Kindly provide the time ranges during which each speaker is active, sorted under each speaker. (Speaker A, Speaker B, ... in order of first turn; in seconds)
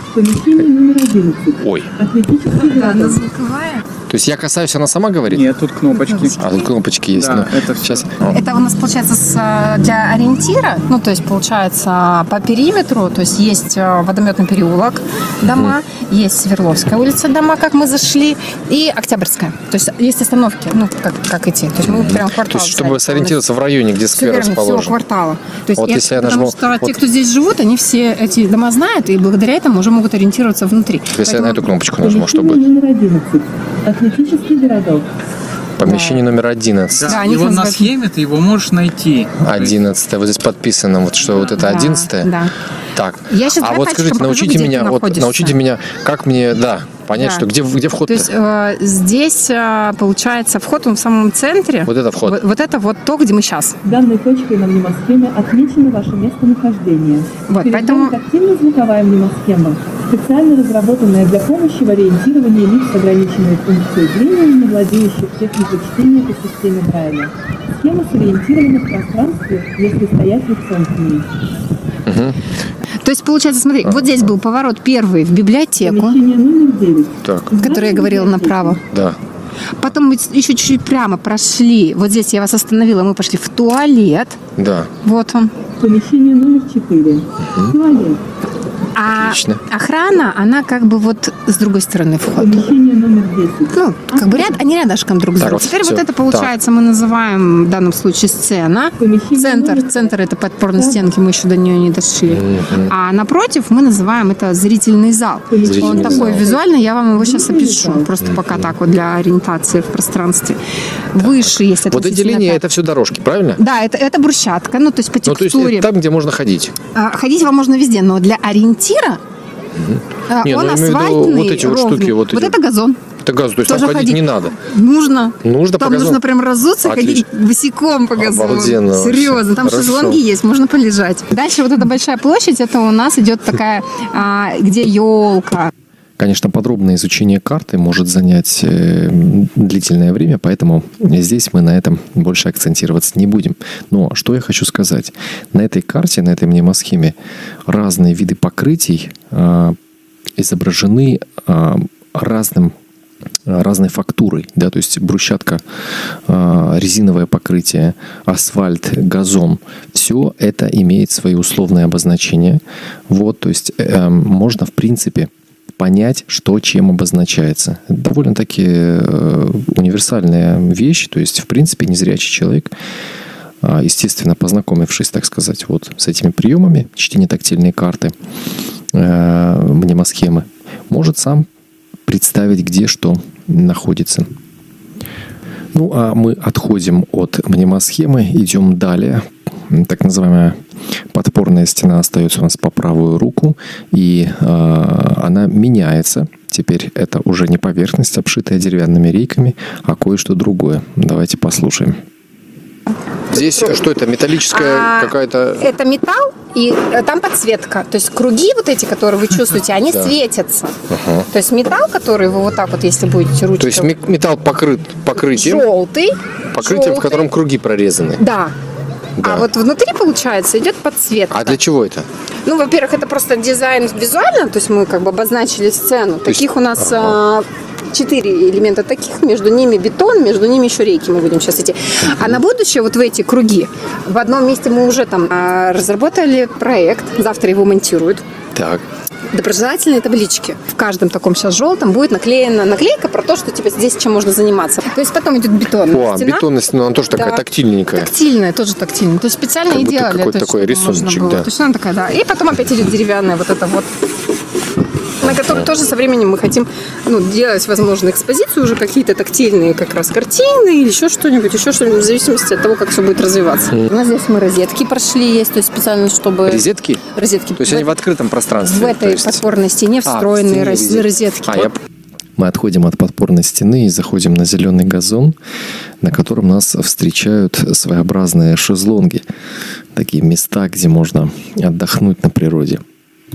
Speaker A: 0.1-3.3, 32.0-35.1, 53.8-71.3, 75.8-78.8, 85.7-88.2, 92.3-94.6, 99.0-100.2, 100.7-101.1, 105.5-108.1
Speaker B: 1.6-1.9, 4.1-5.5, 6.4-8.4, 15.4-15.8, 21.8-24.9, 25.7-27.0, 31.1-32.6, 35.8-37.2, 39.4-42.3, 42.9-48.3, 51.9-52.4, 72.0-72.4, 73.8-74.3, 77.2-77.5, 78.9-79.2, 84.6-84.9, 87.5-87.8, 89.1-89.6, 95.4-96.5, 102.3-102.9, 105.6-106.5, 108.2-108.7, 111.2-113.6, 115.2-116.8, 119.7-122.6, 123.2-124.5, 125.4-126.2, 126.8-127.2, 128.2-130.2, 136.2-149.8, 150.4-152.7, 153.5-172.7, 173.6-178.1, 178.9-181.5, 182.1-184.3, 185.7-190.6, 191.1-202.0, 203.3-205.7, 209.9-210.1, 210.9-211.3, 213.6-215.7, 216.5-218.2, 219.2-219.5, 221.3-222.1, 226.3-227.2, 238.5-238.8, 245.9-248.1, 249.7-251.5, 255.2-255.7, 266.4-267.0, 267.6-269.4, 270.0-271.8, 272.4-275.4, 276.0-279.2, 279.9-282.8
Speaker C: 2.6-3.8, 5.9-6.5, 8.3-23.4, 24.1-31.6, 35.8-36.2, 37.0-37.9, 41.5-42.5, 43.3-45.5, 47.1-47.5, 48.0-53.8, 57.5-58.1, 73.0-76.2, 77.5-78.8, 79.8-84.4, 85.0-85.5, 88.9-92.7, 93.7-110.6, 111.1-112.6, 113.6-115.9, 116.9-119.2, 120.3-123.0, 123.6-135.7, 204.4-210.7, 211.3-213.9, 215.1-217.3, 218.2-218.5, 219.2-221.6, 222.4-238.2, 239.3-246.5, 247.1-247.4, 247.9-253.9, 255.2-267.9, 268.6-271.7
Speaker D: 5.3-8.0, 37.0-39.8